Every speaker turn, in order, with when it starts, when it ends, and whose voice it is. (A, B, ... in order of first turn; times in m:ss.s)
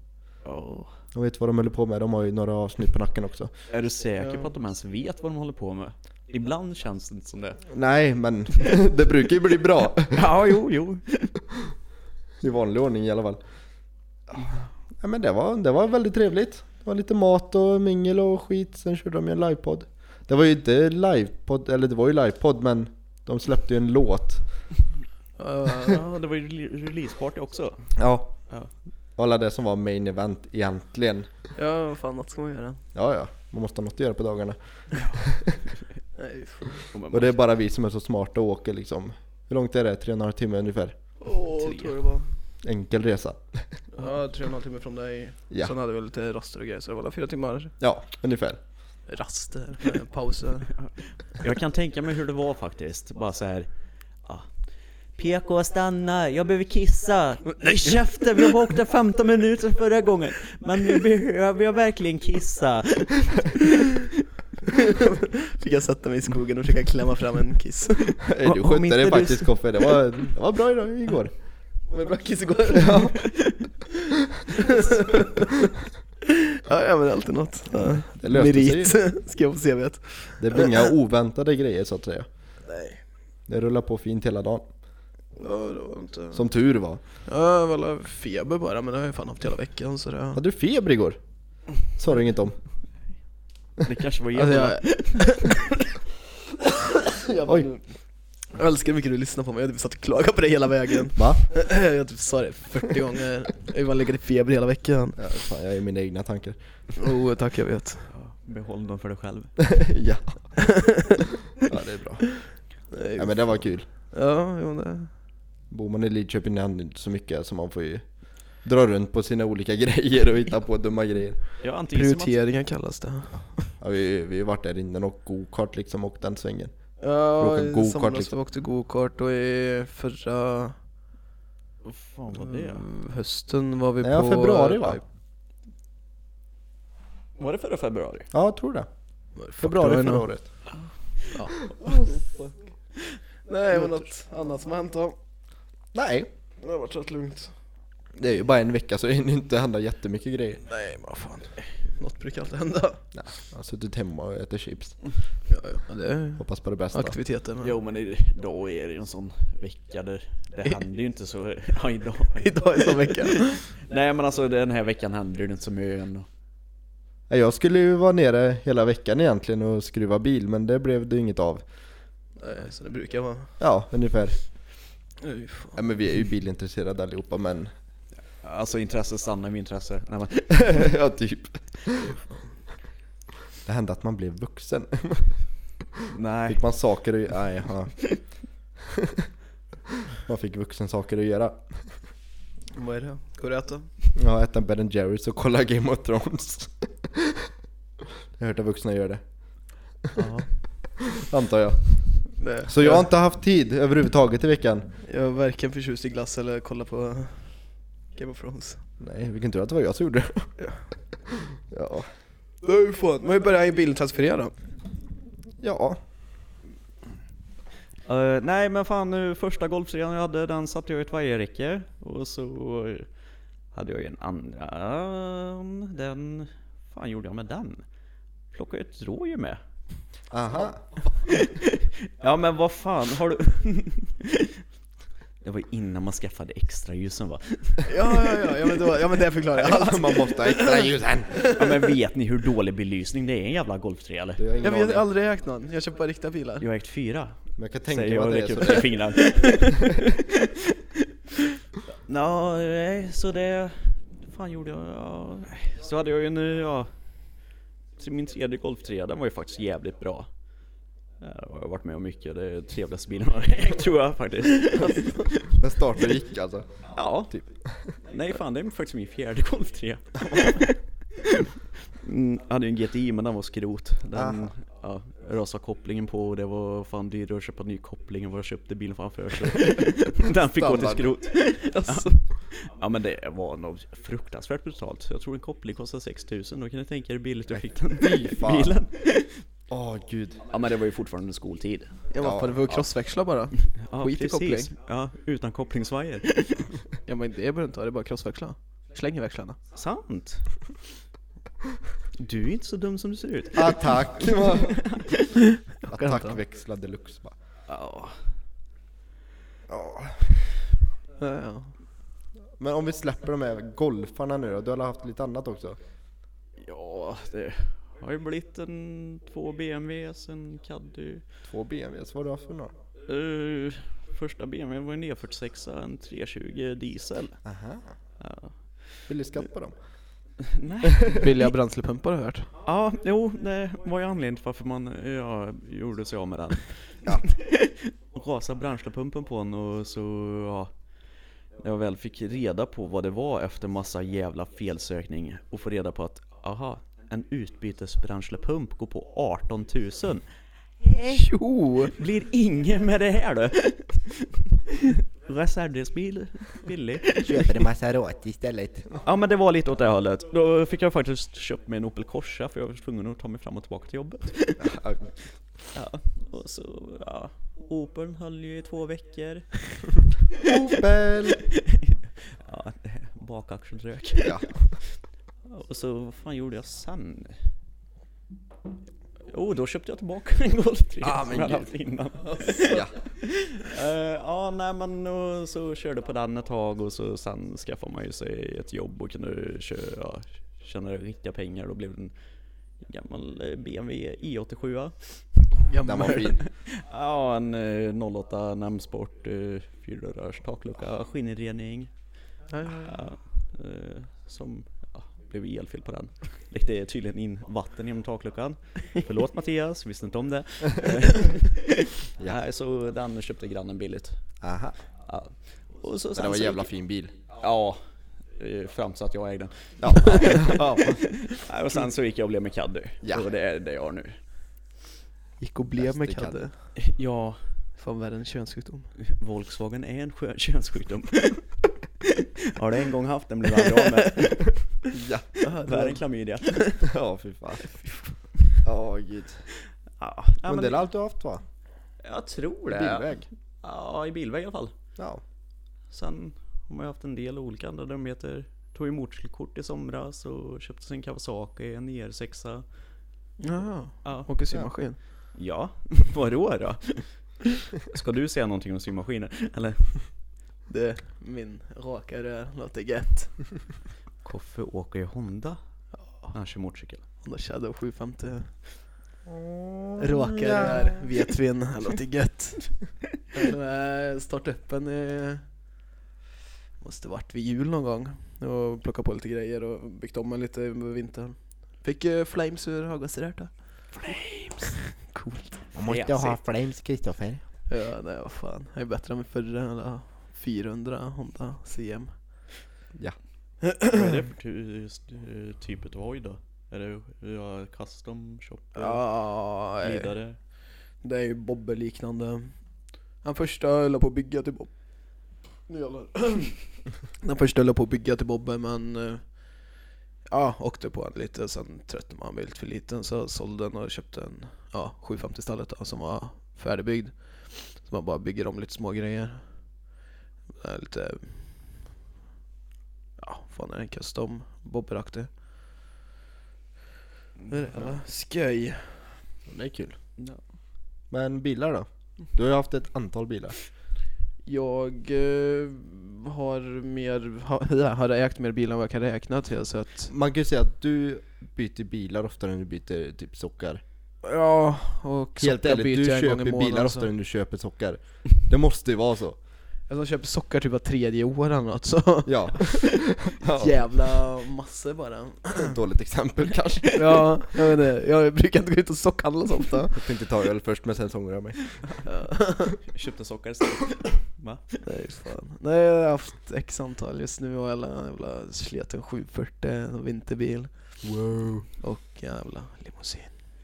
0:00.4-0:00.9 A
0:01.1-0:03.5 B
0:03.7-0:07.6 A
0:04.2-0:04.5 C
0:07.7-0:10.3 B
0:10.1-0:11.3 A
0:12.4-0:13.4 B
0:14.3-0:24.4 B
0:25.4-0:26.0 C
0:25.8-0:27.9 A
0:28.0-0:28.4 B
0:29.2-0:31.3 B
0:31.6-0:32.8 C
0:32.9-0:35.6 B
0:34.9-0:35.5 A
0:36.2-0:36.8 C
0:36.9-0:37.4 A
0:37.1-0:41.0 B
0:41.2-0:42.3 C
0:41.5-0:42.0 A
0:42.6-0:43.8 B
0:43.9-0:47.7 C
0:47.8-0:48.6 B
0:49.1-0:50.7 C
0:51.3-0:53.7 A
0:55.2-1:04.1 A
1:04.7-1:08.2 C
1:08.2-1:11.3 B
1:08.4-1:10.0 A
1:11.9-1:13.2 C
1:12.7-1:13.3 B
1:14.5-1:15.6 C
1:16.2-1:20.9 C
1:17.8-1:19.0 B
1:20.4-1:22.3 B
1:22.6-1:23.0 C
1:23.5-1:24.6 B
1:25.4-1:26.4 C
1:26.3-1:27.0 B
1:27.2-1:30.4 C
1:30.3-1:31.2 B
1:31.9-1:32.6 B
1:33.8-1:35.4 A
1:34.3-1:35.7 C
1:36.7-1:37.8 C
1:38.5-1:45.3 C
1:41.2-1:41.4 B
1:45.2-1:46.6 B
1:47.0-1:48.1 C
1:48.1-1:49.8 A
1:49.7-1:50.5 B
1:50.6-1:51.2 C
1:51.6-1:52.6 B
1:52.4-1:55.1 C
1:53.2-1:53.8 B
1:55.7-2:01.4 B
2:01.6-2:02.4 A
2:01.9-2:03.7 C
2:03.6-2:06.7 B
2:07.0-2:10.8 C
2:07.4-2:08.3 B
2:11.8-2:12.8 A
2:12.4-2:15.0 C
2:14.0-2:15.0 B
2:17.4-2:18.3 A
2:18.3-2:18.9 B
2:19.4-2:20.3 C
2:19.6-2:20.5 B
2:21.3-2:22.6 C
2:23.4-2:25.2 C
2:25.9-2:26.3 B
2:26.6-2:27.5 C
2:28.2-2:30.6 B
2:30.7-2:33.0 C
2:33.1-2:35.0 B
2:35.5-2:37.7 C
2:36.4-2:37.1 B
2:37.6-2:46.2 A
2:42.4-2:43.6 C
2:47.3-2:51.6 B
2:52.4-2:53.5 C
2:53.6-2:54.4 B
2:55.2-2:55.8 C
2:55.7-2:57.7 B
2:58.4-3:01.0 A
3:00.6-3:02.1 B
3:03.6-3:05.4 B
3:06.1-3:06.6 A
3:06.5-3:08.3 B
3:10.1-3:12.0 B
3:12.7-3:13.9 C
3:14.2-3:17.5 B
3:18.3-3:19.2 B
3:20.1-3:20.5 A
3:21.0-3:24.9 B
3:22.4-3:23.1 C
3:25.0-3:27.6 C
3:28.1-3:28.8 C
3:29.0-3:30.5 B
3:31.3-3:32.1 B
3:32.6-3:34.5 C
3:35.6-3:36.0 B
3:38.1-3:43.1 A
3:43.7-3:47.8 A
3:48.5-3:49.6 A
3:50.3-3:50.8 B
3:51.3-3:54.6 A
3:55.4-3:57.9 A
3:57.8-4:01.6 C
3:59.6-4:01.5 B
4:01.4-4:04.4 A
4:04.4-4:05.0 B
4:04.6-4:06.6 C
4:06.6-4:07.4 A
4:07.6-4:08.9 B
4:07.9-4:10.5 A
4:09.3-4:09.5 C
4:12.1-4:16.9 A
4:18.0-4:20.3 A
4:21.2-4:25.6 A
4:24.7-4:25.3 C
4:25.6-4:26.7 B
4:26.9-4:27.3 A
4:27.3-4:27.9 B
4:27.9-4:49.4 A
4:34.1-4:34.5 B
4:40.6-4:42.2 C
4:40.6-4:41.0 B
4:47.5-4:48.8 B
4:49.7-4:50.5 B
4:50.5-4:52.0 A
4:52.1-4:54.7 C
4:52.2-4:52.9 B
4:53.9-4:56.7 A
4:57.0-4:59.6 C
4:59.7-5:00.5 A
5:02.2-5:05.3 A
5:03.5-5:04.8 B
5:05.8-5:06.4 C
5:05.9-5:07.3 B
5:07.7-5:08.2 A
5:09.7-5:10.4 B
5:11.2-5:11.7 C
5:12.6-5:15.8 B
5:16.6-5:21.2 A
5:21.4-5:22.7 B
5:23.0-5:27.4 A
5:27.4-5:27.8 B
5:28.2-5:29.0 A
5:29.0-5:29.8 B
5:30.4-5:31.4 A
5:30.8-5:31.2 B
5:31.1-5:32.5 C
5:32.6-5:40.7 A
5:41.6-5:50.2 A
5:50.9-5:51.9 C
5:51.9-5:57.6 A
5:57.3-5:59.0 B
5:59.0-6:04.8 A
6:04.6-6:05.1 B
6:05.7-6:09.9 A
6:10.4-6:11.4 B
6:11.4-6:17.4 A
6:14.2-6:14.6 B
6:19.3-6:32.1 A
6:21.0-6:21.7 B
6:22.7-6:22.9 B
6:32.8-6:35.5 A
6:35.7-6:36.3 C
6:35.8-6:36.4 B
6:36.2-6:41.9 A
6:42.5-6:43.0 C
6:42.7-6:54.3 A
6:54.4-6:54.8 B
6:55.0-6:56.7 A
6:56.1-6:57.2 B
6:57.3-6:57.8 A
6:58.3-7:04.2 A
6:59.8-7:01.0 B
7:03.0-7:03.3 B
7:05.4-7:06.5 C
7:05.7-7:06.4 B
7:06.8-7:07.4 A
7:07.8-7:08.9 C
7:09.0-7:11.7 A
7:12.4-7:14.7 A
7:14.9-7:15.3 B
7:15.4-7:16.0 C
7:15.6-7:16.8 A
7:16.8-7:17.7 B
7:18.6-7:19.5 B
7:20.0-7:20.8 A
7:20.4-7:21.4 B
7:22.0-7:24.7 A
7:22.7-7:23.2 B
7:25.0-7:25.2 B
7:25.9-7:32.6 A
7:33.4-7:35.0 C
7:34.0-7:34.3 A
7:35.3-7:40.1 A
7:40.7-7:43.6 C
7:44.2-7:45.6 A
7:46.2-7:47.0 A
7:47.2-7:48.7 C
7:49.3-7:51.0 B
7:50.0-7:55.4 C
7:56.8-8:05.6 C
8:05.7-8:06.4 A
8:05.8-8:07.4 B
8:07.7-8:12.2 C
8:13.6-8:14.0 C
8:13.9-8:20.4 A
8:18.7-8:20.1 C
8:21.0-8:22.6 C
8:23.2-8:24.7 C
8:25.7-8:29.7 C
8:30.3-8:39.8 C
8:40.6-8:41.8 C
8:43.2-8:45.3 C
8:47.5-8:49.2 C
8:49.5-8:50.0 B
8:51.1-8:53.6 B
8:54.4-9:00.1 C
9:00.1-9:03.8 B
9:04.2-9:07.1 C
9:05.4-9:09.4 B
9:09.9-9:15.8 C
9:12.2-9:14.2 B
9:15.6-9:17.3 B
9:16.9-9:20.0 C
9:19.9-9:21.8 B
9:22.0-9:22.7 C
9:22.7-9:24.8 A
9:24.8-9:31.0 C
9:31.0-9:31.7 B
9:31.8-9:33.4 C